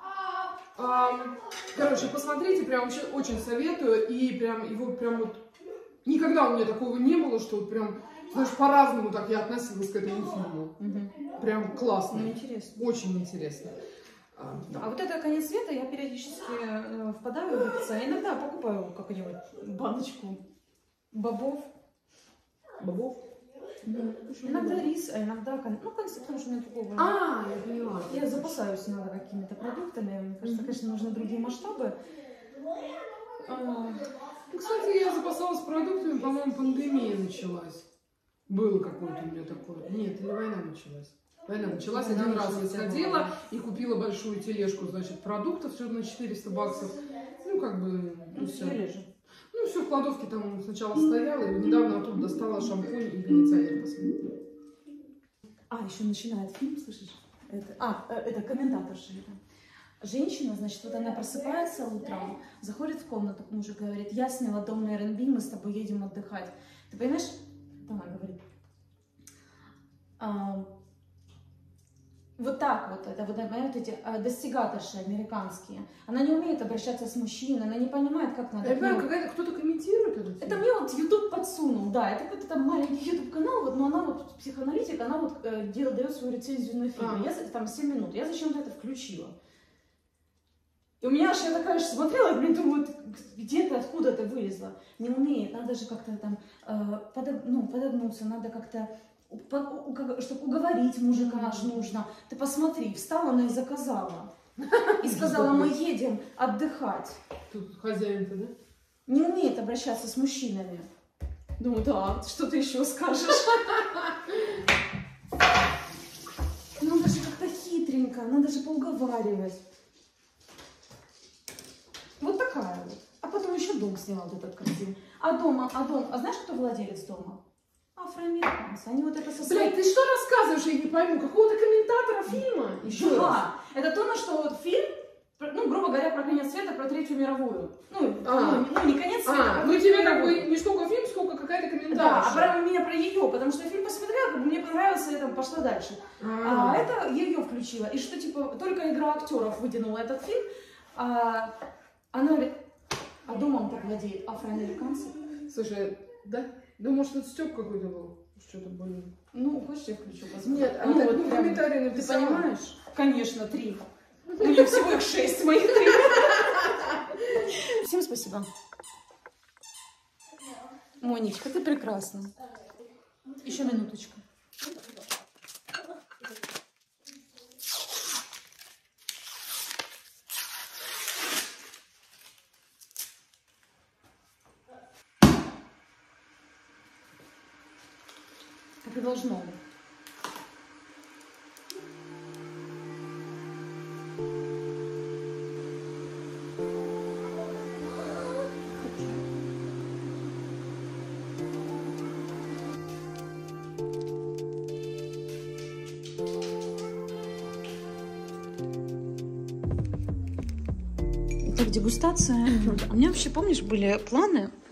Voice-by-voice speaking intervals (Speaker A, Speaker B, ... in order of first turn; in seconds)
Speaker A: 0.8-5.4, 6.0-10.8, 11.4-13.8, 14.3-14.9, 22.8-23.2, 24.3-24.9, 27.0-28.6, 30.4-30.8, 34.5-37.9, 38.5-48.8, 49.5-54.3, 78.6-80.6, 87.0-87.3, 101.2-101.7, 104.6-105.7, 107.5-108.5, 129.4-133.4, 138.2-142.6, 146.2-146.9, 155.5-159.1, 160.4-162.5
Speaker B: 10.8-11.3, 12.1-12.9, 14.7-20.4, 21.1-21.7, 23.8-27.2, 28.1-32.0, 33.4-34.1, 41.8-43.4, 48.3-49.1, 55.7-59.4, 60.0-68.4, 70.2-70.7, 72.4-79.1, 80.4-89.4, 91.0-104.3, 105.0-107.2, 109.1-110.9, 111.6-114.1, 116.8-119.6, 122.2-127.4, 128.0-129.8, 132.8-140.5, 141.9-151.6, 152.1-152.6, 153.3-155.2, 159.3-168.5, 171.0-172.3, 173.4-174.2, 188.8-189.6, 198.8-199.2, 211.4-214.5